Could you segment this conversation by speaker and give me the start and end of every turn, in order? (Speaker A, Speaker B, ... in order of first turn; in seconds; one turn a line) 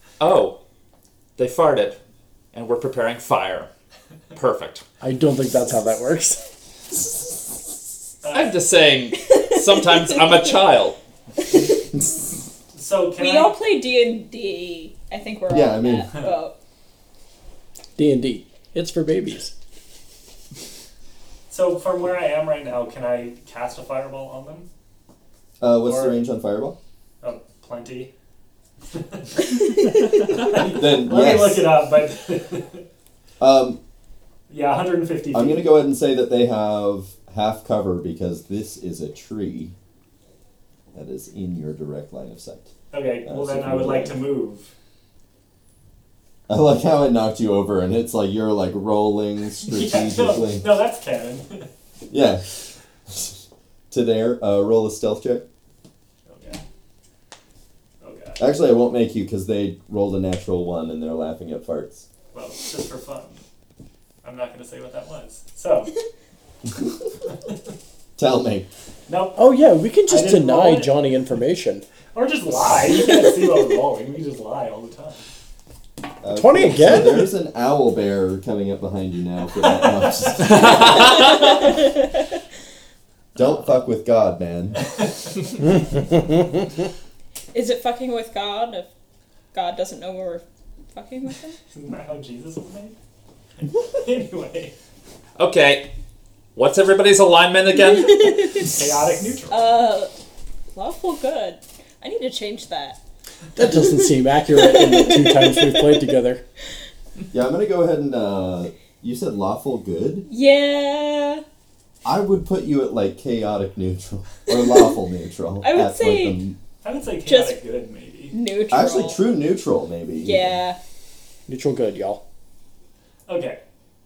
Speaker A: 0.2-0.6
Speaker A: 1.4-2.0
Speaker A: 2.5-3.7
Speaker A: 4.3-4.9
Speaker B: 5.0-6.4
Speaker C: 8.2-8.6
Speaker A: 8.3-11.0
Speaker D: 9.2-10.2
Speaker D: 11.4-11.9
Speaker C: 12.7-13.6
Speaker D: 13.2-16.6
Speaker E: 15.5-16.1
Speaker B: 18.0-19.5
Speaker C: 21.5-24.7
Speaker E: 25.6-26.8
Speaker C: 25.9-26.2
Speaker C: 27.2-28.1
Speaker C: 28.9-32.9
Speaker E: 30.6-31.7
Speaker E: 33.4-33.8
Speaker C: 34.5-35.7
Speaker E: 35.3-39.8
Speaker E: 40.9-42.7
Speaker C: 42.9-44.7
Speaker E: 43.2-44.3
Speaker E: 46.5-50.7
Speaker C: 49.6-51.7
Speaker E: 52.1-55.5
Speaker C: 56.3-56.6
Speaker C: 58.0-58.4
Speaker E: 58.4-62.1
Speaker C: 62.3-63.4
Speaker C: 64.2-66.0
Speaker E: 68.2-68.7
Speaker C: 69.1-69.4
Speaker B: 69.4-71.8
Speaker C: 70.1-70.9
Speaker C: 72.1-75.2
Speaker E: 76.2-81.1
Speaker B: 76.3-77.3
Speaker A: 80.5-81.5
Speaker D: 80.6-82.3
Speaker E: 83.4-84.9
Speaker D: 87.5-88.9
Speaker D: 89.5-91.6
Speaker C: 91.7-93.0
Speaker C: 93.6-94.8
Speaker A: 95.4-95.9
Speaker A: 96.5-98.9
Speaker D: 97.8-98.7
Speaker C: 98.6-99.7
Speaker D: 99.5-100.1
Speaker D: 100.7-103.0
Speaker B: 103.5-106.4
Speaker D: 104.6-106.0
Speaker E: 107.3-110.3
Speaker D: 110.3-111.4
Speaker E: 112.0-116.6
Speaker D: 115.6-116.4
Speaker C: 116.8-118.4
Speaker D: 117.2-117.6
Speaker D: 118.3-119.2
Speaker E: 118.7-120.6
Speaker D: 120.2-120.8
Speaker B: 121.5-122.2
Speaker C: 123.3-123.6